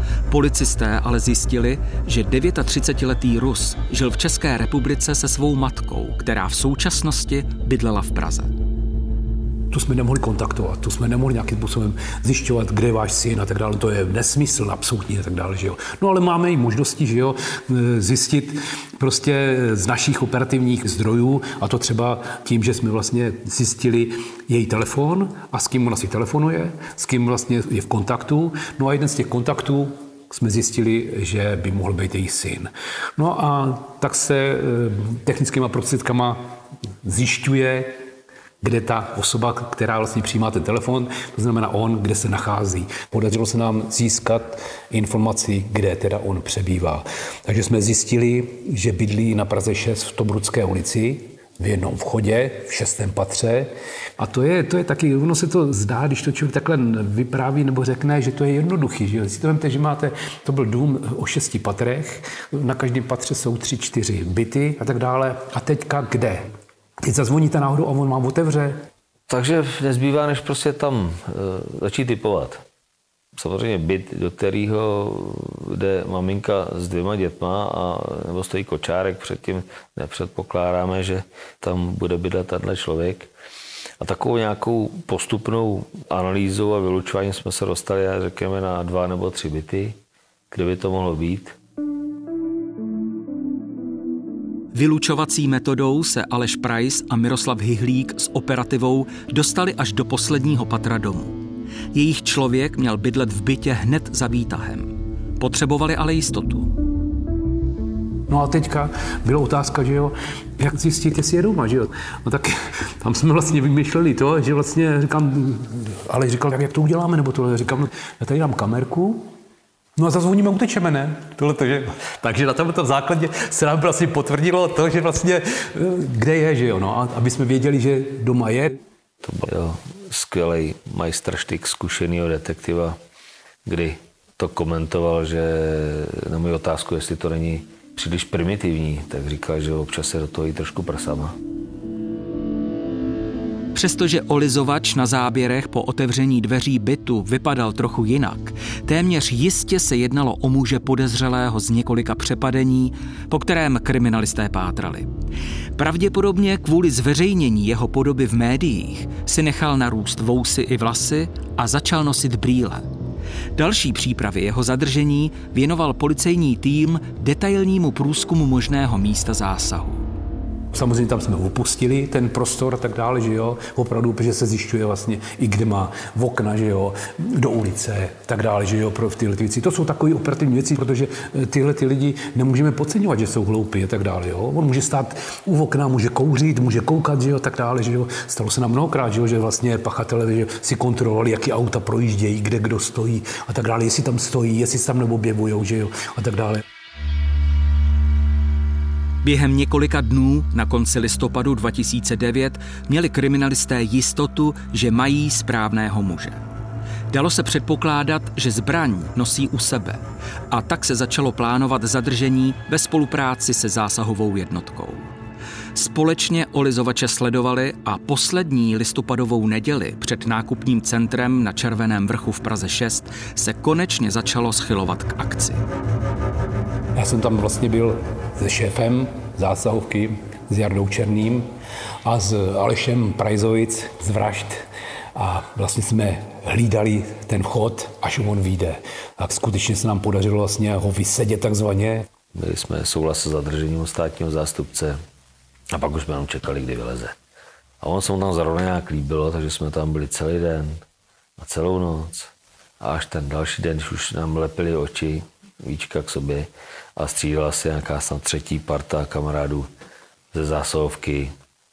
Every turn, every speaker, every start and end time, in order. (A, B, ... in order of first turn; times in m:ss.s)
0:00.3-0:08.5 A
0:09.7-0:38.0 B
0:38.6-1:06.5 B
1:07.0-1:08.8 B
1:09.3-1:12.6 C
1:13.3-1:23.3 C
1:24.0-1:30.0 C
1:30.5-1:31.6 C
1:34.7-1:41.4 A
1:41.9-1:46.7 A
1:48.3-1:59.3 B
2:00.0-2:08.8 B
2:09.2-2:13.0 C
2:13.6-2:21.3 C
2:23.7-2:35.1 A
2:35.8-2:42.8 A
2:43.6-2:50.0 A
2:50.7-3:16.6 B
3:19.2-3:26.4 A
3:27.1-3:35.1 A
3:35.7-3:45.6 A
3:47.0-3:51.5 B
3:52.0-4:02.1 B
4:02.3-4:05.0 C
4:05.7-4:07.1 C
4:07.8-4:10.8 C
4:11.4-4:19.6 C
4:20.3-4:21.3 C